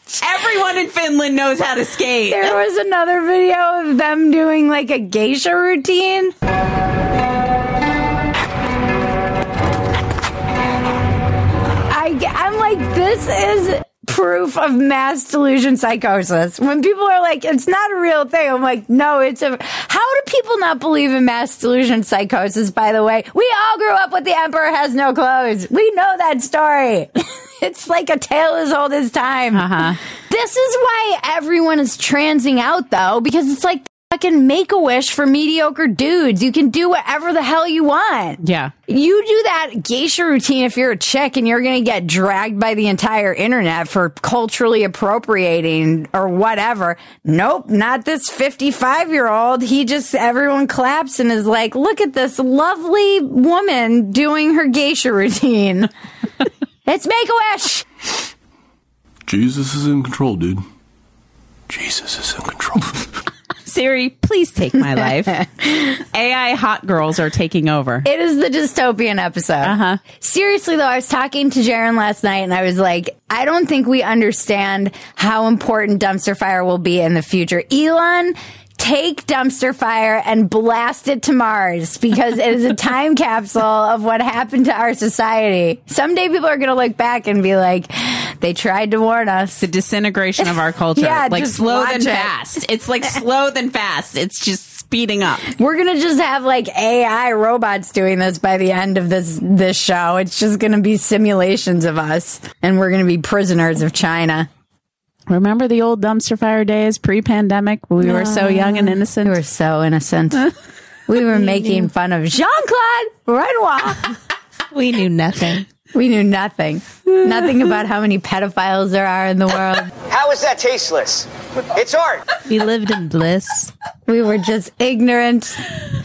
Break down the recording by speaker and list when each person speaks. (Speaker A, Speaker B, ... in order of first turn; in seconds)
Speaker A: 0.2-2.6, 29.5-30.0, 38.4-38.7, 63.7-68.0, 69.6-70.0, 89.6-95.5, 105.3-109.4
Speaker B: 2.3-6.3, 11.9-29.8, 30.3-55.9, 56.9-57.9, 68.0-89.6, 90.4-92.3, 95.6-104.5, 109.2-110.5, 111.1-114.1, 115.9-119.9, 124.1-125.6
Speaker C: 59.3-60.6, 61.7-63.0
Speaker D: 108.1-108.9, 111.4-111.8, 114.7-115.7, 122.5-123.7
Speaker E: 120.1-122.2